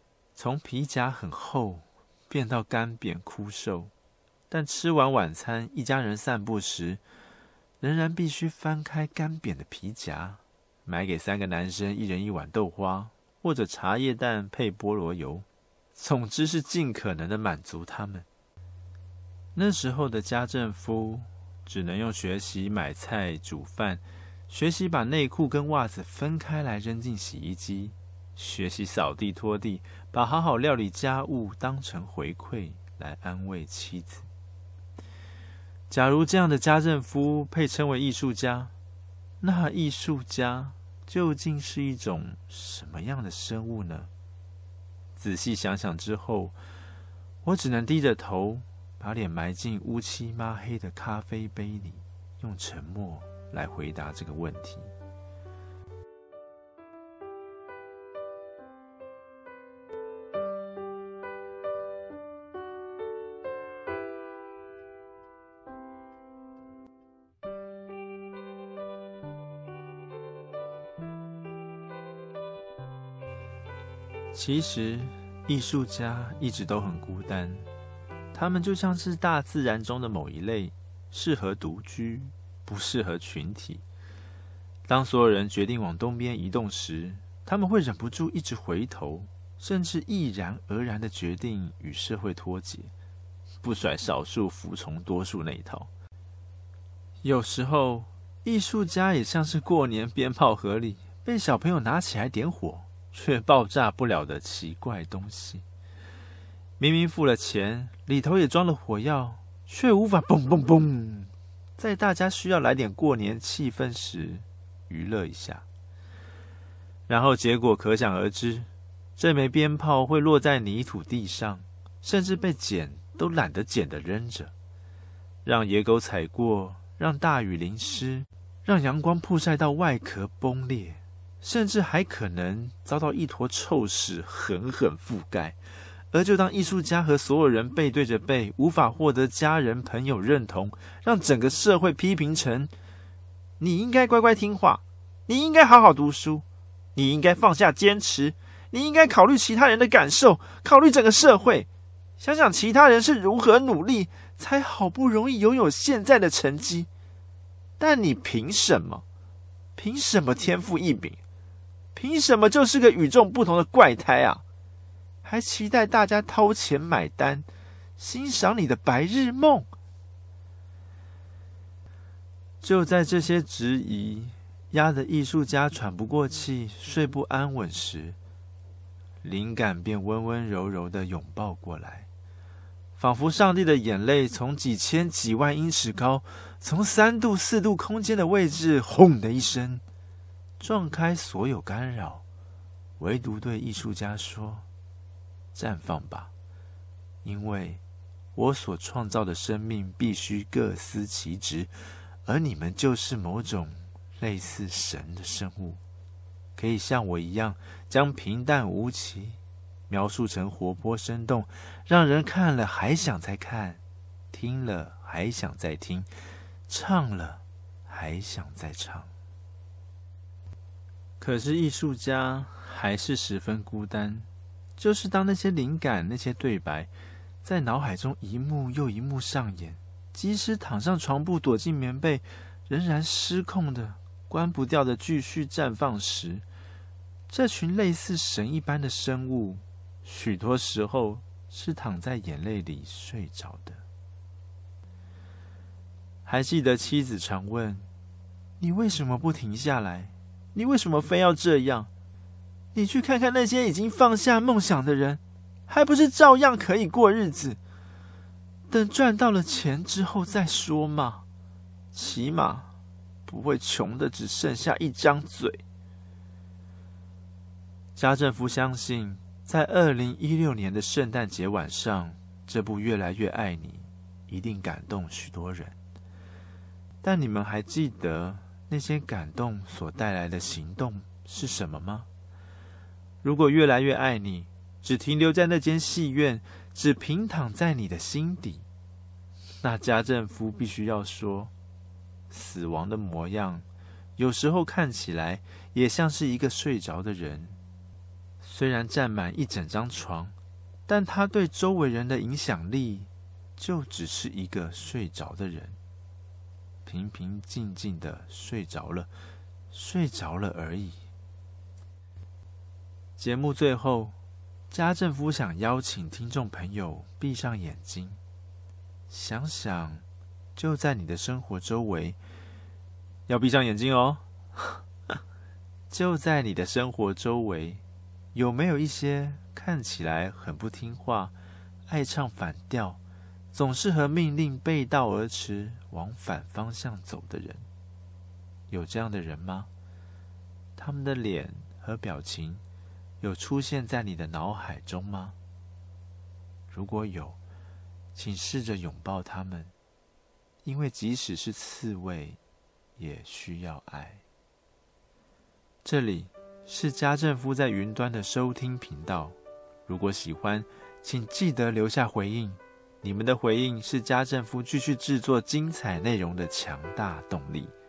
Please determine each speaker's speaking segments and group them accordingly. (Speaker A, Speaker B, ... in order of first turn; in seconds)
Speaker A: 0.3-3.9, 4.5-7.0, 7.8-18.2, 19.5-34.3, 35.9-38.7, 39.4-44.1, 45.1-46.6, 47.4-54.9, 74.3-77.7, 78.3-83.8, 84.9-92.9, 93.6-95.9, 97.2-105.6, 106.8-115.7, 117.1-124.5, 125.4-135.6, 136.1-142.7, 143.6-151.7, 152.2-156.9, 157.8-159.0, 159.8-161.2, 161.9-164.4, 165.2-167.5, 168.0-169.7, 172.6-178.2, 179.2-182.1, 183.0-189.8, 190.6-192.2, 193.0-194.7, 195.5-196.3, 197.2-197.8, 198.3-201.7, 202.2-205.8, 206.6-213.8, 214.3-216.1, 216.7-219.1, 221.2-226.9, 227.4-236.4, 237.3-243.8, 246.2-247.9, 248.6-251.9, 252.7-257.6, 258.7-261.2, 261.9-262.7, 263.2-265.6, 267.9-275.8, 277.0-282.1, 283.2-288.6, 289.6-291.5, 292.3-293.6, 294.2-297.6, 298.4-300.3, 300.9-305.8, 306.8-309.1, 309.7-311.0, 313.2-314.1, 314.7-318.2, 319.1-320.0, 320.6-322.2, 323.3-324.8, 325.9-331.3, 331.9-333.0, 333.5-337.7, 338.7-339.7, 340.8-342.6, 343.2-345.4, 346.7-347.4, 348.1-349.7, 350.6-352.4, 353.0-354.2, 355.8-367.7